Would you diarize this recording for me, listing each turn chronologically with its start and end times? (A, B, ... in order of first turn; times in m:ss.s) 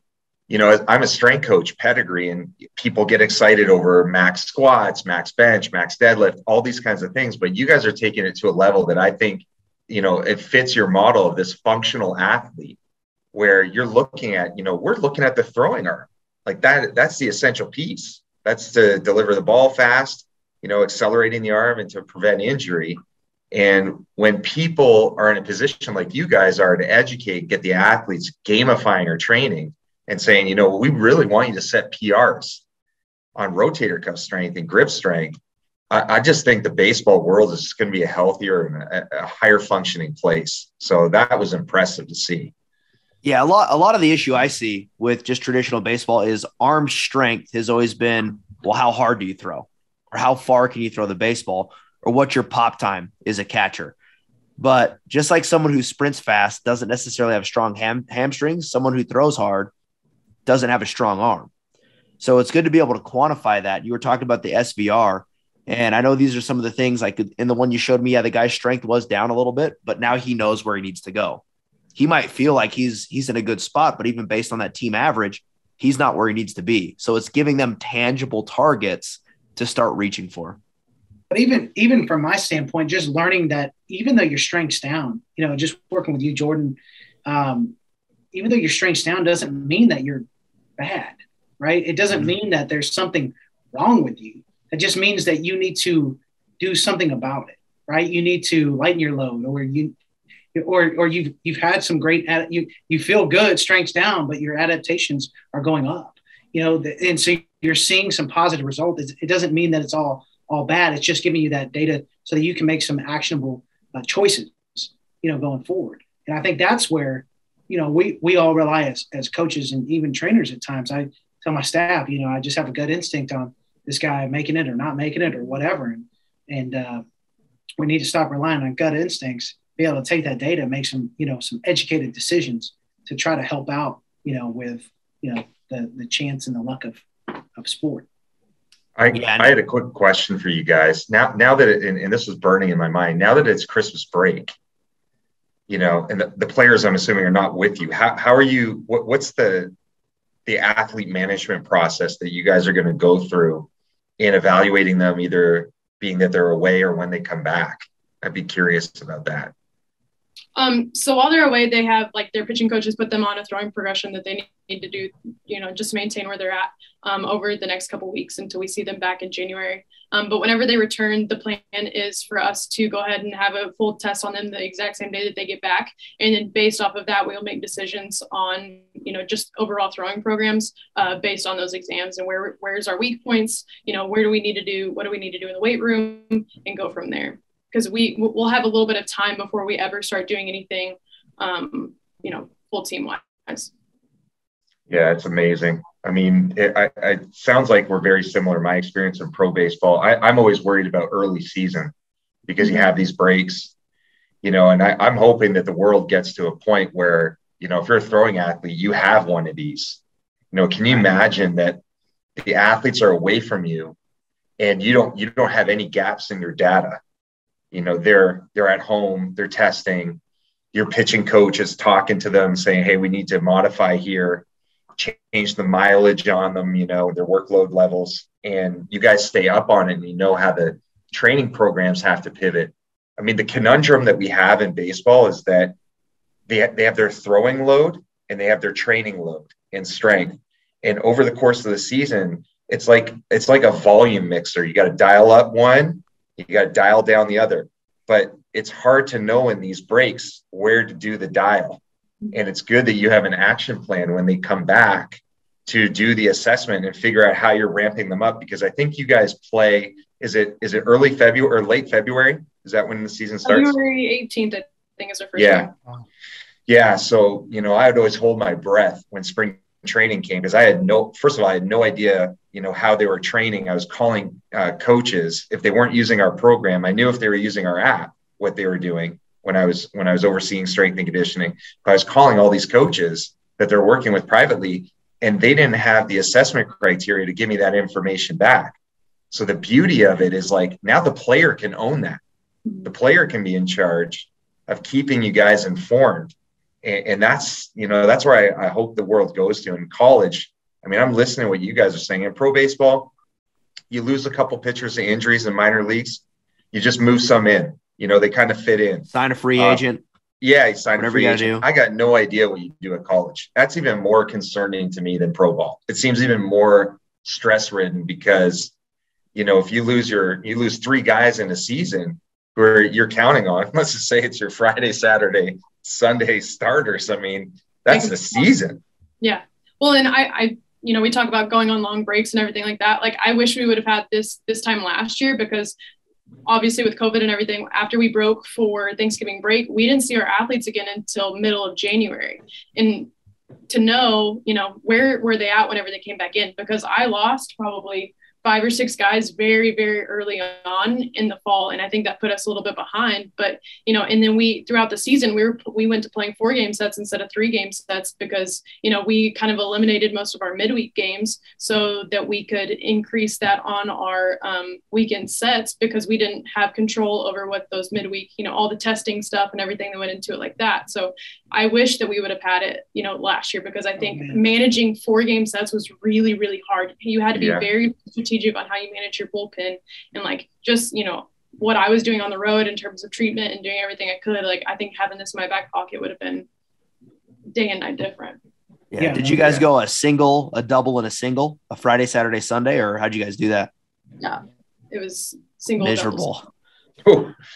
0:00.5-0:12.8 A
0:13.3-0:23.0 A
0:23.5-0:32.6 A
0:33.4-0:35.4 A
0:35.9-0:42.5 A
0:43.2-0:53.9 B
0:54.6-0:59.7 B
1:00.5-1:01.5 B
1:02.2-1:11.4 B
1:12.0-1:20.6 B
1:21.3-1:27.7 C
1:28.3-1:30.2 C
1:30.8-1:39.9 C
1:40.5-2:07.0 C
2:07.8-2:17.0 C
2:17.6-2:18.1 C
2:19.0-2:24.5 A
2:19.1-2:19.5 B
2:25.7-2:29.7 A
2:30.5-2:33.7 A
2:34.2-2:39.5 A
2:40.6-3:13.7 D
3:14.9-3:21.9 A
3:22.5-3:23.7 A
3:22.6-3:22.9 D
3:24.4-3:30.0 A
3:30.5-3:31.8 A
3:32.4-3:34.0 A
3:34.6-3:37.0 A
3:37.7-3:40.2 A
3:40.7-3:44.4 A
3:45.0-3:55.8 A
3:56.5-4:11.8 A
4:12.3-4:23.8 A
4:23.4-4:25.7 D
4:25.4-4:25.7 A
4:26.7-4:48.8 A
4:49.3-4:52.2 A
4:52.8-5:03.1 A
5:03.9-5:09.8 A
5:09.1-5:10.0 B
5:10.4-5:18.7 A
5:11.0-5:11.6 B
5:19.4-5:28.8 A
5:27.9-5:28.5 D
5:29.2-5:35.8 D
5:36.5-5:43.1 D
5:43.7-6:26.5 D
6:14.0-6:14.4 C
6:17.4-6:17.7 A
6:27.5-6:28.4 D
6:28.9-6:33.7 B
6:29.0-6:29.7 C
6:34.2-6:36.3 D
6:35.8-6:36.4 B
6:37.0-6:37.4 A